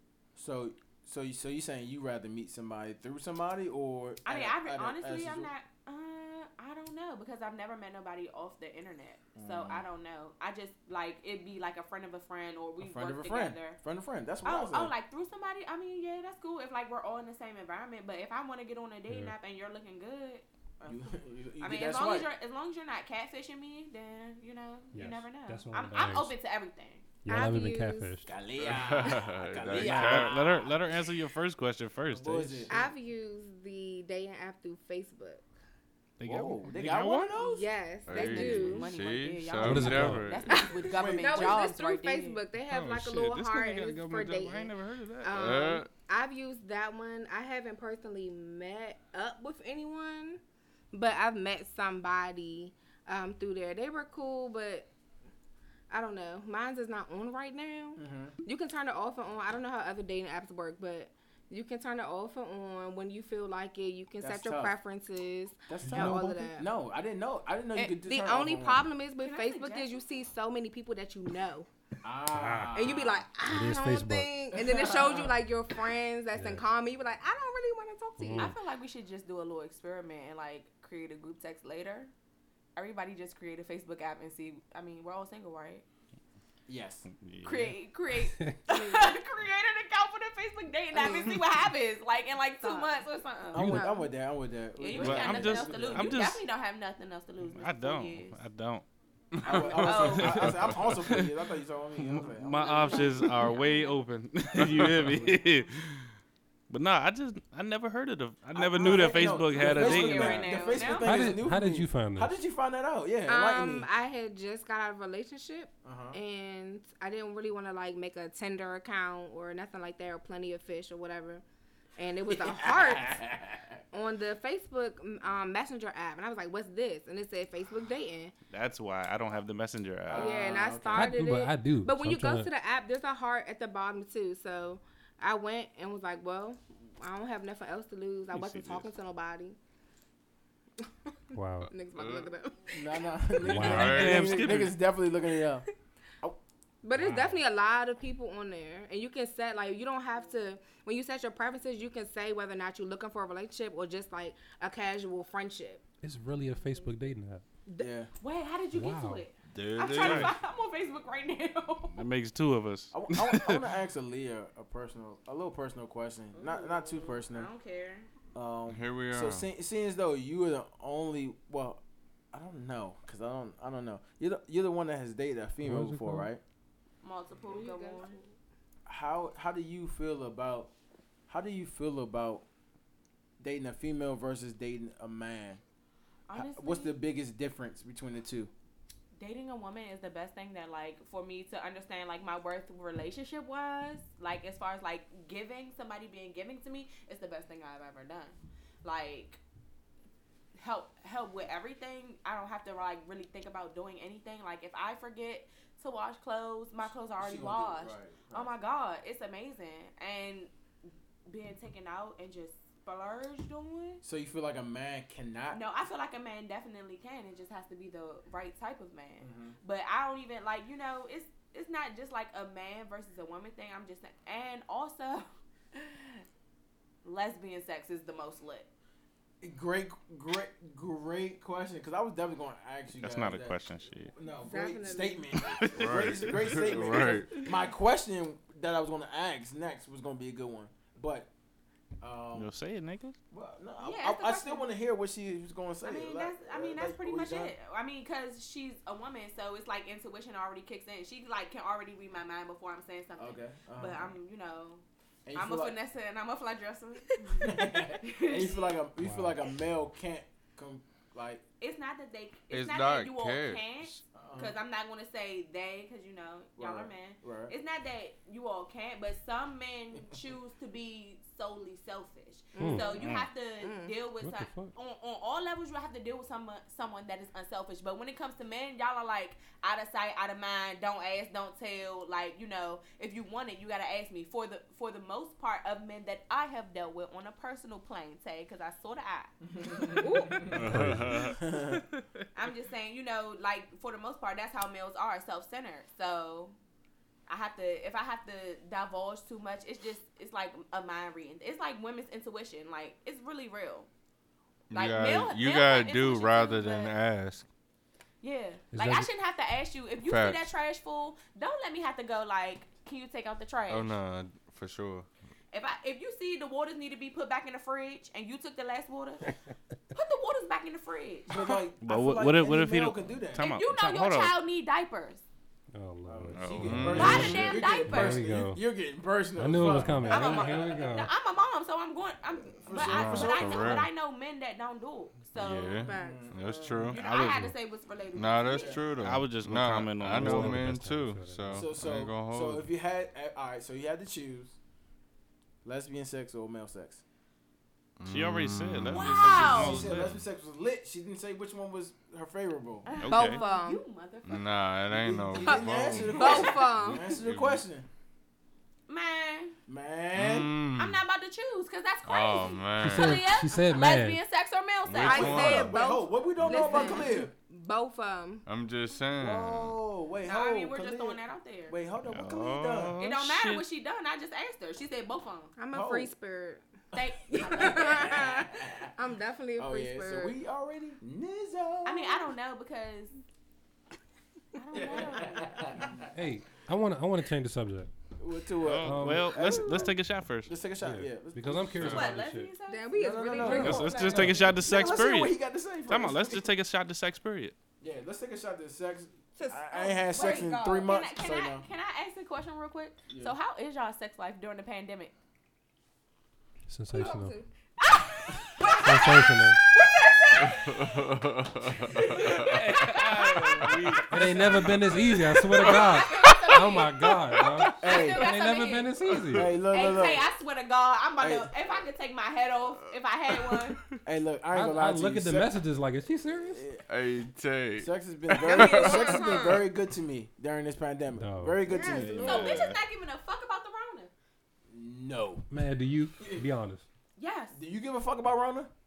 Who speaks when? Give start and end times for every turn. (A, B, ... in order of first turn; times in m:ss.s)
0:00.3-0:05.5 A
0:04.2-0:13.8 B
0:09.3-0:09.9 A
0:12.8-0:14.9 A
0:14.4-0:27.0 B
0:19.1-0:19.3 C
0:20.8-0:22.3 A
0:24.9-0:26.3 C
0:27.2-0:28.3 C
0:27.3-0:28.1 D
0:28.2-0:30.7 A
0:28.6-0:30.4 E
0:29.7-0:32.7 F
0:32.1-0:32.8 A
0:32.7-0:35.4 D
0:36.2-0:37.4 F
0:36.2-0:37.7 A
0:37.4-0:38.9 D
0:38.0-0:40.6 E
0:38.1-0:42.4 B
0:39.6-0:40.4 C
0:40.5-0:50.4 D
0:40.9-0:41.6 A
0:42.7-0:45.6 F
0:45.3-0:45.9 E
0:50.9-0:54.9 D
0:55.9-1:06.7 D
0:58.0-0:58.4 A
1:04.2-1:04.7 A
1:05.7-1:08.9 A
1:05.8-1:06.2 C
1:07.8-1:11.7 D
1:09.2-1:10.0 B
1:12.0-1:13.2 A
1:12.3-1:12.9 C
1:12.7-1:18.5 D
1:13.4-1:14.4 C
1:14.6-1:15.3 A
1:16.3-1:16.6 C
1:18.2-1:18.6 C
1:18.4-1:22.1 B
1:22.8-1:25.8 B
1:26.7-1:27.1 A
1:27.2-1:27.8 F
1:27.4-1:33.8 B
1:28.2-1:28.6 C
1:28.7-1:29.2 D
1:30.9-1:31.3 D
1:32.6-1:33.0 D
1:33.5-1:36.2 A
1:33.6-1:33.8 C
1:33.6-1:34.1 D
1:34.8-1:38.4 B
1:35.0-1:36.4 F
1:37.5-1:38.8 F
1:39.4-1:39.8 E
1:39.4-1:41.3 F
1:39.4-1:43.2 A
1:39.8-1:40.5 B
1:42.0-1:46.1 F
1:42.6-1:44.0 B
1:44.6-1:45.4 A
1:46.7-1:50.6 F
1:48.6-1:53.9 A
1:48.6-1:51.3 B
1:51.0-1:52.4 C
1:53.3-2:01.4 D
1:55.8-1:56.2 A
2:02.0-2:03.2 D
2:02.3-2:03.8 A
2:03.9-2:08.3 D
2:08.5-2:10.6 F
2:10.1-2:11.2 A
2:10.1-2:19.6 D
2:10.9-2:12.5 C
2:18.3-2:18.9 F
2:21.3-2:21.7 C
2:21.7-2:23.3 D
2:21.9-2:22.3 E
2:22.7-2:25.6 A
2:23.4-2:24.2 C
2:23.4-2:24.7 F
2:23.5-2:24.5 E
2:26.8-2:35.8 D
2:26.9-2:27.4 C
2:36.0-2:37.4 C
2:37.8-2:38.1 A
2:38.2-2:42.0 B
2:38.7-2:39.2 C
2:39.5-2:40.3 E
2:40.0-2:40.3 F
2:41.9-2:43.6 F
2:42.9-2:47.5 A
2:46.3-2:48.1 B
2:48.3-2:51.8 A
2:48.7-2:49.5 E
2:52.3-2:56.4 A
2:55.6-2:56.3 C
2:57.0-2:58.2 B
2:57.4-2:58.3 D
2:58.8-3:00.7 A
3:01.3-3:02.4 A
3:03.4-3:05.6 A
3:06.3-3:07.0 B
3:06.3-3:08.5 A
3:09.2-3:19.4 B
3:20.6-3:30.5 B
3:27.2-3:28.5 A
3:31.3-3:34.0 B
3:34.0-3:35.6 A
3:35.5-3:46.2 B
3:39.2-3:39.6 A
3:47.0-3:48.7 B
3:49.4-3:53.6 A
3:53.0-3:54.1 F
3:54.1-4:01.3 A
3:54.4-3:55.3 D
3:55.5-3:56.6 F
3:55.6-3:57.5 E
4:02.0-4:02.5 A
4:02.3-4:03.2 F
4:03.3-4:07.5 A
4:03.8-4:04.7 B
4:05.8-4:18.8 B
4:13.2-4:14.2 A
4:15.2-4:15.8 A
4:17.4-4:21.4 A
4:19.0-4:19.4 C
4:21.6-4:50.0 B
4:22.5-4:23.7 E
4:24.1-4:24.6 A
4:26.6-4:27.5 A
4:32.6-4:33.9 D
4:32.6-4:33.0 C
4:33.0-4:33.3 F
4:34.2-4:34.7 C
4:49.4-4:50.5 A
4:49.9-4:50.5 D
4:50.5-4:51.4 E
4:50.7-4:51.0 C
4:51.3-4:51.8 A
4:52.3-4:56.6 B
4:57.3-5:03.9 B
5:04.7-5:07.4 E
5:04.7-5:06.9 B
5:08.2-5:14.0 B
5:08.7-5:09.1 C
5:10.0-5:10.5 E
5:13.7-5:15.1 E
5:15.5-5:19.3 B
5:19.9-5:21.3 B
5:21.3-5:23.5 A
5:21.8-5:24.4 F
5:23.4-5:25.2 B
5:25.7-5:28.6 C
5:26.0-5:30.6 A
5:26.3-5:27.1 F
5:26.6-5:27.4 E
5:27.0-5:28.3 B
5:29.4-5:31.1 C
5:30.0-5:35.9 B
5:32.6-5:33.8 A
5:32.8-5:33.9 E
5:35.3-5:37.5 E
5:35.8-5:36.7 D
5:35.8-5:36.9 A
5:36.9-5:38.8 B
5:37.0-5:37.4 F
5:38.1-5:42.6 E
5:38.5-5:38.8 A
5:39.0-5:40.7 F
5:40.0-5:41.7 C
5:41.5-5:44.6 A
5:45.6-5:47.0 A
5:48.0-5:50.2 E
5:48.1-5:50.2 F
5:48.9-5:49.8 B
5:49.1-5:52.9 A
5:52.8-5:54.7 B
5:53.0-5:53.4 F
5:53.1-5:53.8 D
5:54.2-5:56.5 E
5:54.9-5:57.8 A
5:55.4-5:57.1 D
5:56.1-5:56.6 B
5:57.1-5:57.6 E
5:58.9-5:59.6 B
5:59.7-6:00.5 A
6:00.1-6:01.0 E
6:00.8-6:05.7 B
6:02.0-6:03.2 E
6:02.8-6:04.2 C
6:04.8-6:05.8 E
6:05.0-6:08.4 D
6:05.1-6:07.3 A
6:06.4-6:06.8 E
6:08.4-6:09.8 E
6:09.2-6:13.0 A
6:10.2-6:11.8 B
6:12.1-6:13.6 F
6:13.0-6:15.5 B
6:15.6-6:16.6 D
6:15.7-6:16.1 A
6:16.9-6:18.3 B
6:17.3-6:20.4 D
6:17.5-6:18.9 A
6:19.6-6:22.3 A
6:21.8-6:23.1 B
6:24.5-6:25.8 B
6:24.7-6:26.1 A
6:26.1-6:27.9 C
6:28.2-6:32.1 A
6:28.6-6:30.5 F
6:28.8-6:29.7 C
6:30.8-6:32.5 C
6:31.8-6:32.1 E
6:31.8-6:33.8 B
6:32.7-6:34.6 D
6:32.9-6:36.5 A
6:33.4-6:37.5 F
6:33.6-6:34.6 C
6:37.8-6:41.7 A
6:39.4-6:40.9 D
6:40.2-6:45.1 B
6:43.1-6:43.3 A
6:46.7-6:47.4 C
6:46.9-6:47.5 D
6:47.8-6:50.8 B
6:48.8-6:49.6 C
6:50.5-6:52.7 E
6:51.9-6:53.7 B
6:52.1-6:55.2 F
6:54.1-6:59.5 C
6:54.2-6:54.7 A
6:55.5-7:03.8 B
6:55.6-6:55.9 E
6:57.8-6:58.3 A
6:59.3-7:00.3 A
7:01.2-7:01.5 A
7:04.0-7:05.6 A
7:04.5-7:06.7 C
7:06.5-7:06.8 A
7:06.8-7:09.5 E
7:07.8-7:12.4 A
7:08.4-7:09.6 D
7:11.2-7:11.7 C
7:11.6-7:12.7 D
7:11.8-7:12.8 F
7:12.2-7:14.1 B
7:14.7-7:15.5 A
7:15.5-7:16.8 C
7:16.2-7:16.4 A
7:17.2-7:17.6 B
7:17.5-7:18.7 A